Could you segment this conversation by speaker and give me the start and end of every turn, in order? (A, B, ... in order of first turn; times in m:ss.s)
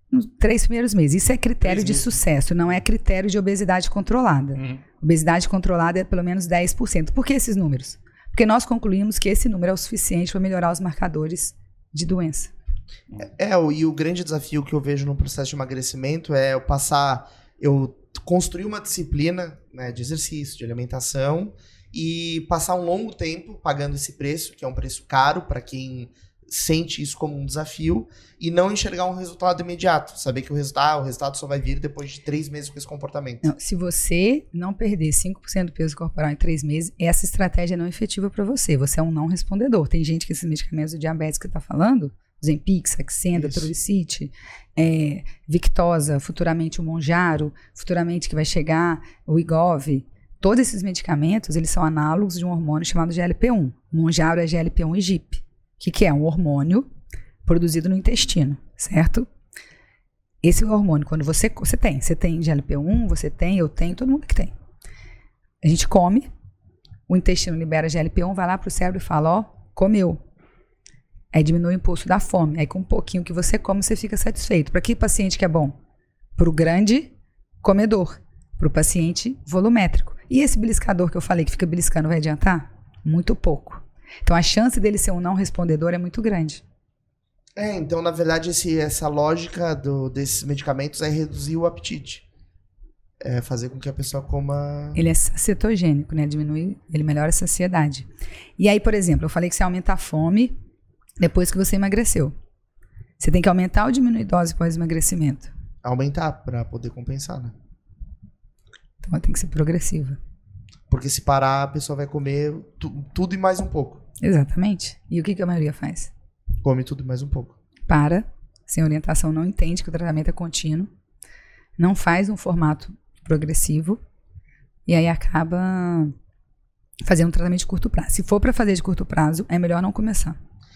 0:00.1-0:12.5 A
0:01.6-0:02.1 B
0:13.2-0:33.5 B
0:33.4-0:56.9 A
0:43.3-0:43.7 B
0:57.4-0:59.3 A
1:00.4-1:04.5 A
1:05.6-1:06.3 A
1:07.1-1:10.2 A
1:11.3-1:15.8 A
1:16.4-1:26.6 A
1:27.6-1:32.2 B
1:33.2-1:35.0 B
1:34.9-1:40.6 A
1:41.2-1:42.3 A
1:43.2-1:45.5 A
1:45.8-1:47.5 B
1:49.0-1:50.2 A
1:50.9-1:54.0 B
1:54.2-1:56.1 A
1:56.6-1:57.6 B
1:57.9-2:00.9 A
2:01.8-2:04.0 A
2:04.9-2:06.1 A
2:07.1-2:10.4 A